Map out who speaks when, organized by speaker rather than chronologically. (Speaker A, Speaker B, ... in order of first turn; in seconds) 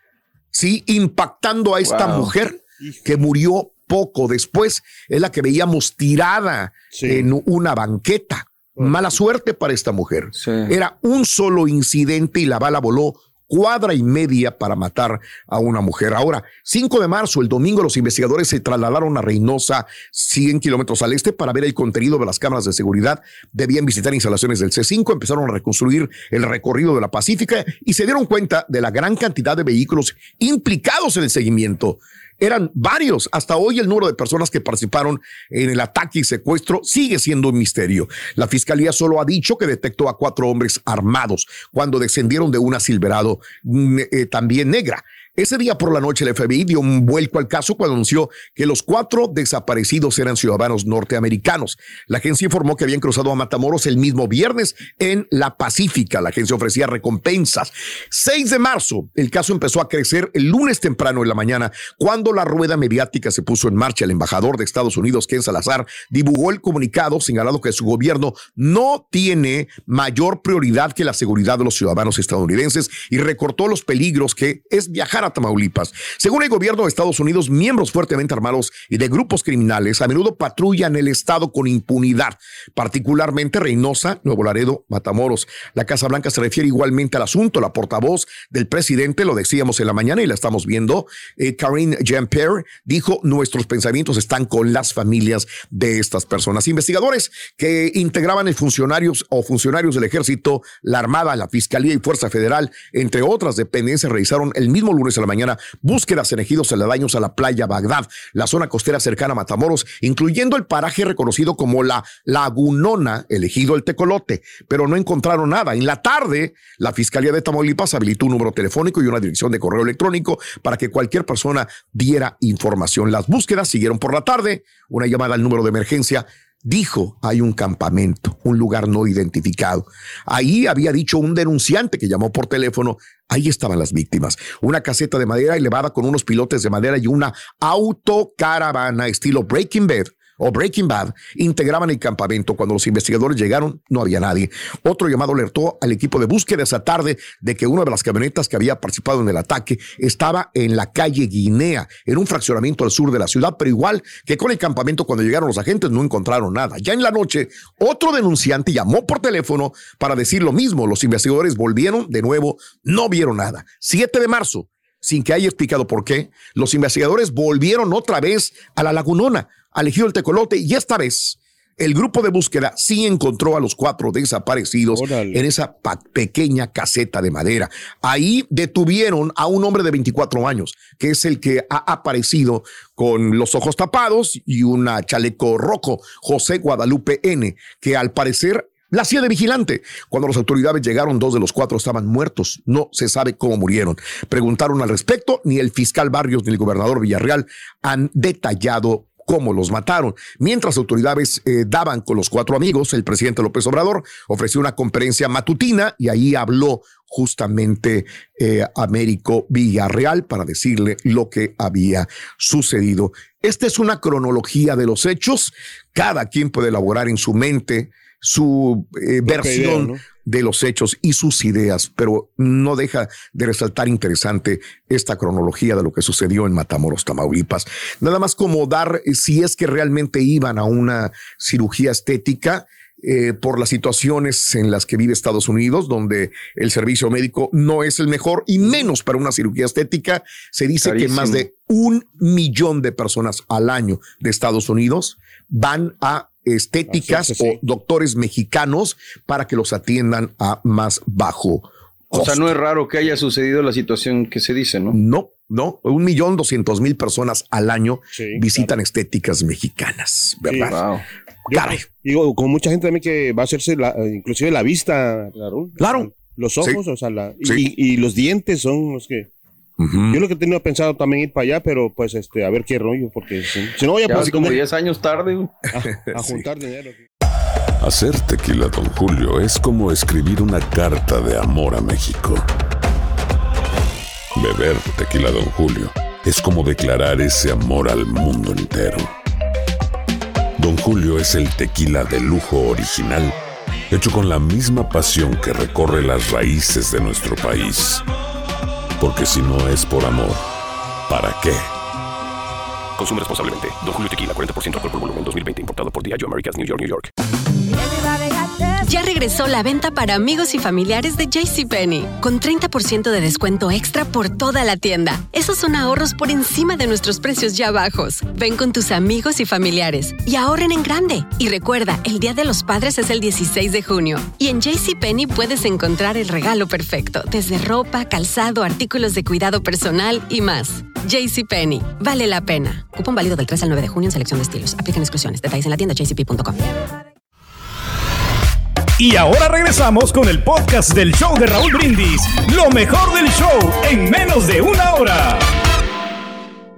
Speaker A: 0.5-252.5, 254.9-260.8, 261.5-261.8, 265.8-266.8, 267.4-267.7, 269.8-270.2, 274.2-274.5, 275.8-276.4
Speaker B: 1.8-2.3, 10.4-10.7, 240.8-241.4, 252.1-254.9, 260.6-261.0, 274.1-275.5
Speaker C: 2.8-3.1, 6.9-7.3, 174.9-175.4, 219.3-220.0, 246.9-247.6, 258.1-258.4, 260.5-260.7, 261.5-269.3, 270.1-274.6, 275.7-277.0
Speaker D: 277.8-282.5, 284.3-289.1, 290.6-293.4, 293.9-298.0, 299.0-300.4, 301.1-301.7
Speaker E: 303.0-307.1
Speaker F: 308.8-336.6
Speaker G: 339.0-345.4